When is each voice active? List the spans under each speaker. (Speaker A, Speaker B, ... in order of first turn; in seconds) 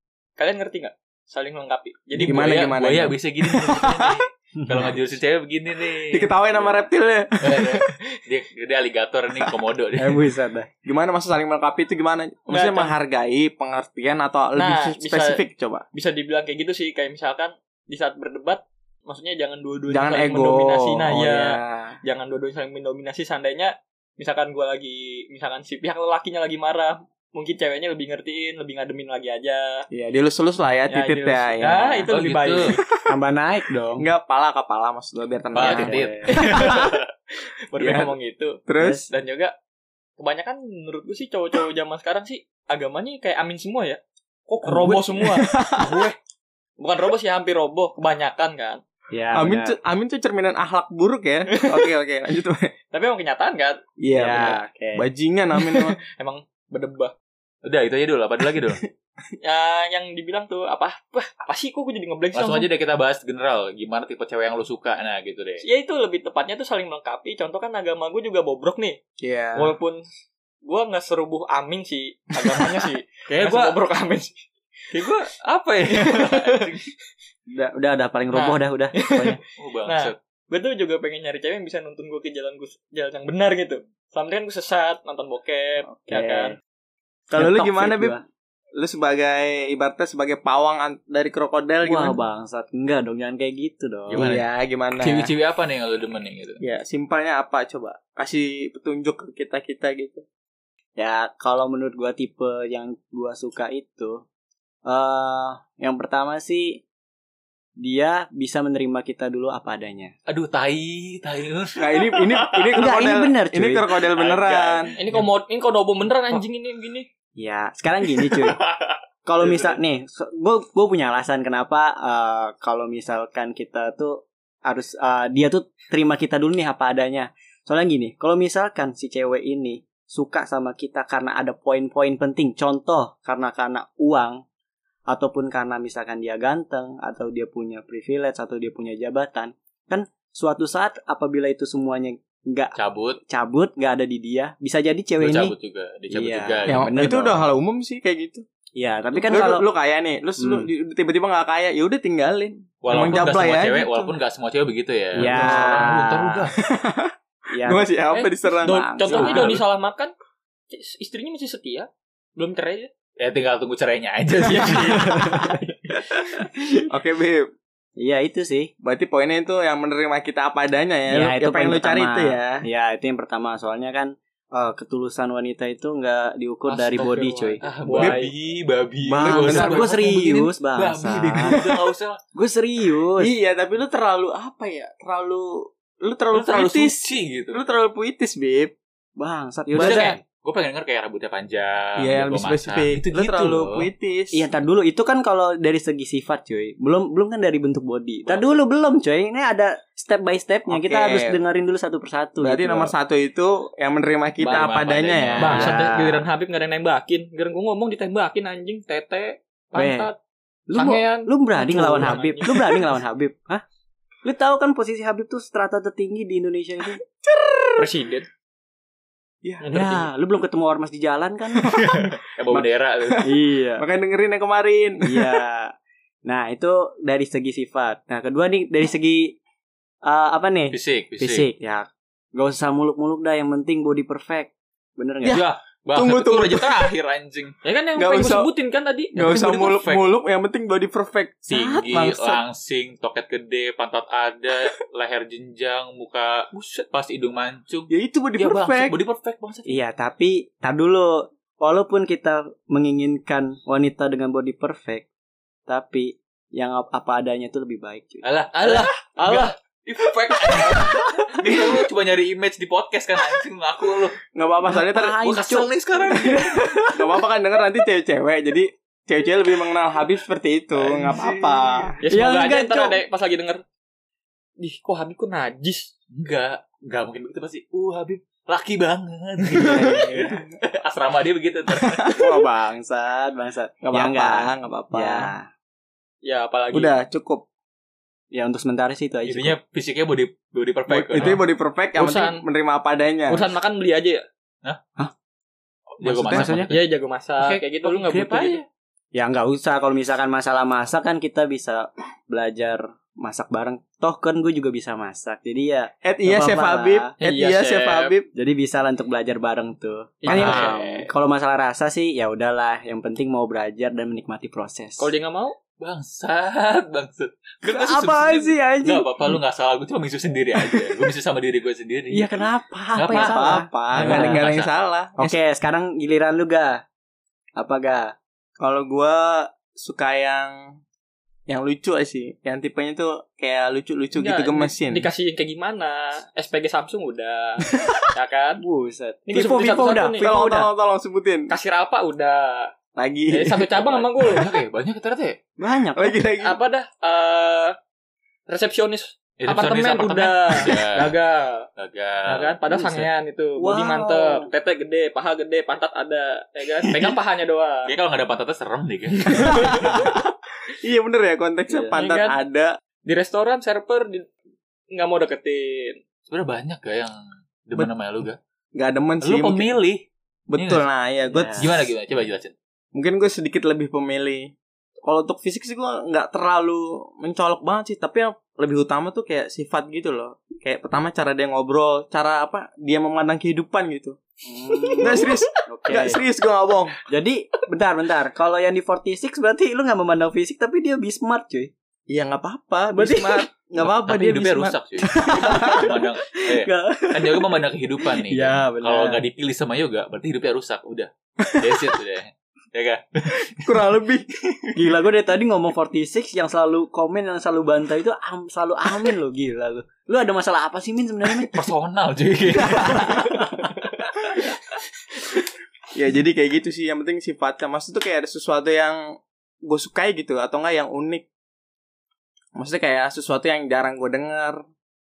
Speaker A: 0.4-2.7, 12.5-12.9, 14.6-15.4, 15.9-29.9, 30.9-32.8, 36.3-39.5, 40.2-46.1, 46.8-48.8, 51.5-51.9, 52.9-53.8, 55.6-57.1, 59.4-62.7, 65.6-69.0, 69.5-70.0, 70.6-75.2, 75.9-76.9, 78.3-86.5, 114.2-117.1, 158.1-160.1, 160.7-162.9, 164.4-166.0, 177.7-178.3, 205.4-210.2, 210.7-212.9, 217.8-218.2, 219.6-220.1, 237.6-239.4, 259.2-259.5, 260.1-260.4, 272.0-273.6, 274.6-275.9, 286.2-286.9, 291.9-292.4, 293.3-294.2, 296.7-298.6, 307.2-308.1, 310.2-311.1, 315.0-315.5, 334.1-338.6, 339.3-340.6, 341.5-342.7, 343.3-344.5, 346.4-347.8, 348.5-351.7, 352.2-357.9, 361.9-362.4, 363.0-364.3, 364.9-366.0
Speaker B: 2.1-6.3, 7.4-10.2, 32.1-32.8, 35.5-36.9, 45.9-46.1, 57.6-58.8, 62.3-65.6, 73.3-73.7, 74.9-76.8, 79.5-80.2, 94.1-94.4, 95.0-96.6, 110.3-112.8, 115.0-115.3, 118.2-119.7, 142.7-143.2, 145.2-146.9, 152.8-156.6, 159.1-159.6, 163.2-165.4, 176.7-182.2, 186.3-187.6, 189.7-193.9, 198.2-198.6, 204.4-205.8, 222.2-223.3, 230.7-231.5, 235.2-237.6, 239.2-240.1, 241.5-249.8, 258.2-264.2, 265.2-266.8, 270.7-271.4, 276.1-282.2, 289.2-291.4, 296.0-296.9, 297.4-298.7, 310.3-310.7, 315.8-322.4, 322.9-324.7, 344.2-345.4, 349.4-351.1, 351.8-353.1, 357.9-360.1, 366.3-367.1, 367.6-368.4, 369.2-370.9, 371.5-372.5, 393.8-403.9, 411.4-413.9
Speaker C: 2.2-4.2, 6.1-7.9, 10.8-15.8, 19.9-22.0, 29.9-32.0, 34.0-36.9, 37.8-38.1, 38.7-39.1, 44.6-46.1, 49.3-52.7, 54.0-56.0, 69.2-69.7, 87.3-88.2, 88.8-92.2, 94.2-95.3, 96.6-100.2, 111.8-114.9, 146.7-148.4, 149.2-154.1, 155.1-155.9, 156.6-159.6, 165.1-165.6, 166.9-167.5, 168.8-172.7, 177.9-178.3, 179.2-180.1, 181.4-181.9, 183.2-188.7, 189.7-190.2, 192.0-194.4, 200.7-201.4, 202.4-205.8, 217.2-217.9, 221.6-225.4, 235.2-236.9, 238.0-238.5, 239.1-242.4, 247.9-248.9, 264.3-265.2, 266.1-272.0, 279.6-280.4, 281.7-282.2, 283.8-285.3, 286.7-287.4, 290.9-293.5, 296.0-296.7, 306.0-308.3, 310.3-310.6, 323.1-325.4, 328.6-330.8, 331.5-335.1, 337.7-338.0, 339.4-341.5, 342.9-344.4, 345.9-346.6, 359.3-362.7, 368.7-369.7, 370.5-371.8, 372.9-374.5, 375.0-384.2, 385.0-387.0, 392.1-395.9, 403.5-404.8, 412.5-413.4, 415.9-419.0, 419.6-421.2, 422.6-424.6
Speaker D: 4.6-5.0, 10.0-10.7, 31.7-32.1, 33.0-34.0, 35.6-36.4, 38.8-39.1, 49.1-49.8, 54.1-55.0, 77.5-79.4, 85.9-86.5, 87.3-88.2, 91.8-94.3, 101.0-104.2, 104.8-106.8, 107.8-110.1, 112.8-113.9, 117.4-118.6, 119.2-134.4, 135.1-142.7, 143.3-145.5, 146.1-147.4, 148.8-149.7, 150.4-150.7, 155.2-156.5, 157.5-157.9, 168.0-168.7, 171.1-177.6, 179.0-181.6, 182.3-183.3, 189.2-190.2, 194.3-202.9, 205.5-206.2, 209.8-210.1, 210.7-213.6, 214.2-217.0, 219.7-221.8, 223.2-223.8, 225.0-225.7, 226.2-229.3, 230.0-235.4, 249.7-255.1, 255.7-258.2, 264.6-266.9, 272.1-273.0, 279.8-280.3, 282.2-285.5, 288.3-289.6, 296.3-296.7, 299.1-307.1, 308.3-315.1, 317.6-319.1, 322.1-324.4, 325.2-326.8, 327.6-328.1, 338.6-340.6, 345.6-346.2, 353.6-354.5, 361.7-361.9, 371.3-371.7, 384.4-386.2, 387.1-391.7, 392.9-393.5, 395.3-397.5, 398.1-399.2, 404.8-411.6, 412.8-413.4